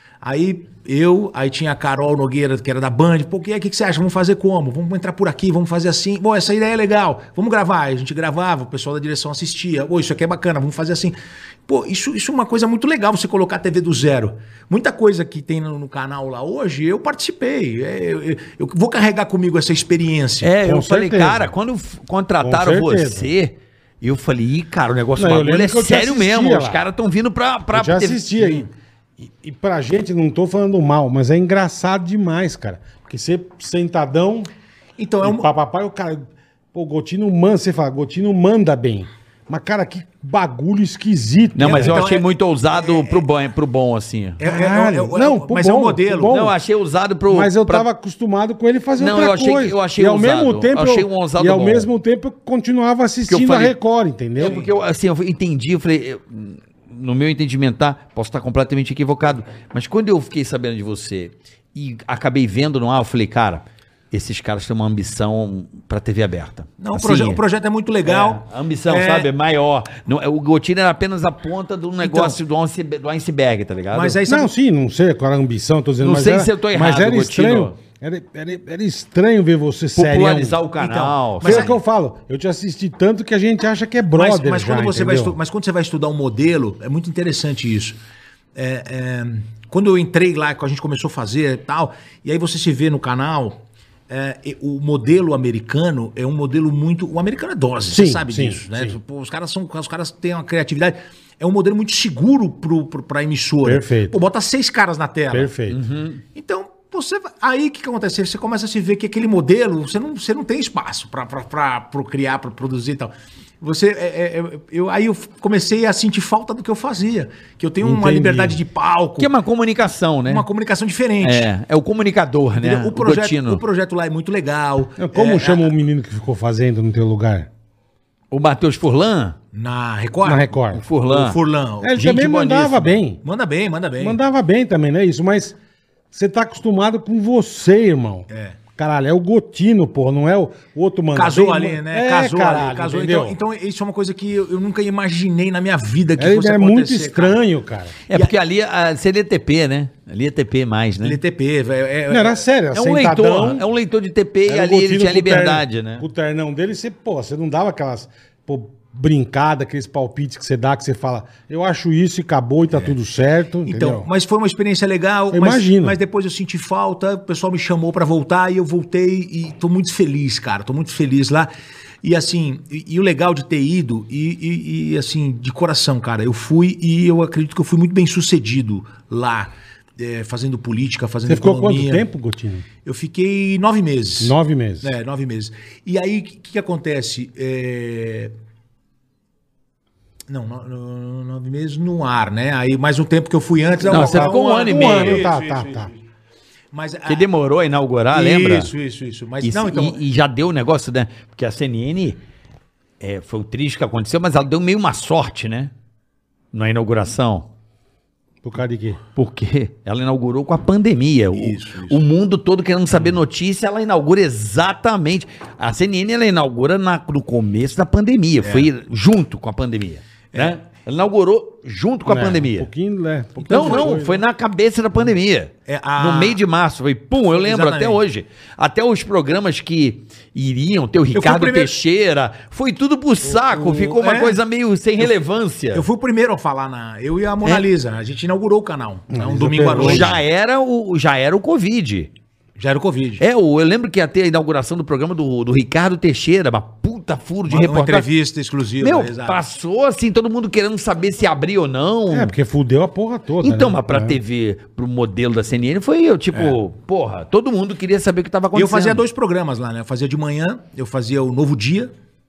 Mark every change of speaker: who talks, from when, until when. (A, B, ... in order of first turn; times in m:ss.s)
0:00.2-0:11.2 A
0:11.7-0:20.5 A
0:20.4-0:28.4 B
0:20.6-0:21.5 C
0:22.4-0:23.3 C
0:25.2-0:26.8 C
0:27.7-0:28.7 C
0:28.4-0:28.6 A
0:29.2-0:34.5 C
0:35.0-0:35.5 A
0:35.2-0:42.0 C
0:41.5-0:44.4 B
0:41.6-0:43.3 A
0:44.4-0:46.4 A
0:44.4-0:46.5 C
0:46.3-0:47.9 B
0:47.3-0:54.6 C
0:49.0-0:51.9 B
0:53.3-0:53.7 B
0:54.4-1:07.4 B
0:54.4-0:54.7 A
1:06.8-1:09.3 A
1:08.0-1:14.2 B
1:12.0-1:12.4 A
1:13.9-1:14.5 A
1:14.2-1:20.6 C
1:16.0-1:17.7 B
1:20.0-1:21.7 B
1:20.8-1:21.8 A
1:21.4-1:25.4 C
1:24.1-1:28.0 A
1:28.5-1:45.5 A
1:37.9-1:39.0 C
1:43.6-1:44.2 C
1:45.3-1:45.8 C
1:45.7-1:46.2 B
1:46.3-1:59.3 A
1:57.8-1:58.6 C
1:59.2-2:00.4 B
2:00.2-2:01.5 A
2:01.2-2:03.6 B
2:02.6-2:05.7 A
2:05.0-2:07.5 C
2:08.3-2:09.4 B
2:09.5-2:12.2 A
2:10.2-2:10.8 C
2:10.7-2:11.4 B
2:11.8-2:13.2 C
2:12.0-2:13.0 B
2:13.2-2:14.2 A
2:14.0-2:15.6 C
2:16.1-2:23.4 C
2:18.3-2:18.6 A
2:21.1-2:27.4 A
2:26.2-2:28.0 C
2:28.1-2:31.2 B
2:31.0-2:32.4 A
2:32.1-2:33.6 C
2:32.7-2:36.0 B
2:34.5-2:44.1 C
2:43.6-2:51.5 A
2:45.3-2:46.0 C
2:52.0-3:02.0 A
3:01.3-3:02.6 C
3:02.8-3:08.3 A
3:04.2-3:04.9 C
3:10.3-3:16.0 A
3:13.9-3:15.9 C
3:13.9-3:15.3 B
3:16.7-3:17.3 A
3:17.1-3:18.7 B
3:18.1-3:20.0 A
3:19.4-3:22.2 B
3:23.0-3:25.7 B
3:26.5-3:27.5 B
3:28.4-3:29.0 C
3:29.2-3:42.7 B
3:31.3-3:32.0 A
3:38.4-3:38.7 A
3:40.3-3:40.6 A
3:42.0-3:44.2 C
3:43.4-3:43.9 A
3:43.5-3:55.8 B
3:45.7-3:46.4 A
3:47.3-3:48.0 A
3:51.1-3:51.7 A
3:53.6-3:54.4 A
3:55.7-4:00.2 A
3:59.1-4:00.2 C
3:59.7-4:02.1 B
4:02.6-4:03.2 A
4:03.2-4:08.0 B
4:07.5-4:09.4 A
4:08.8-4:12.3 B
4:12.1-4:14.2 C
4:13.4-4:19.0 B
4:18.5-4:21.9 A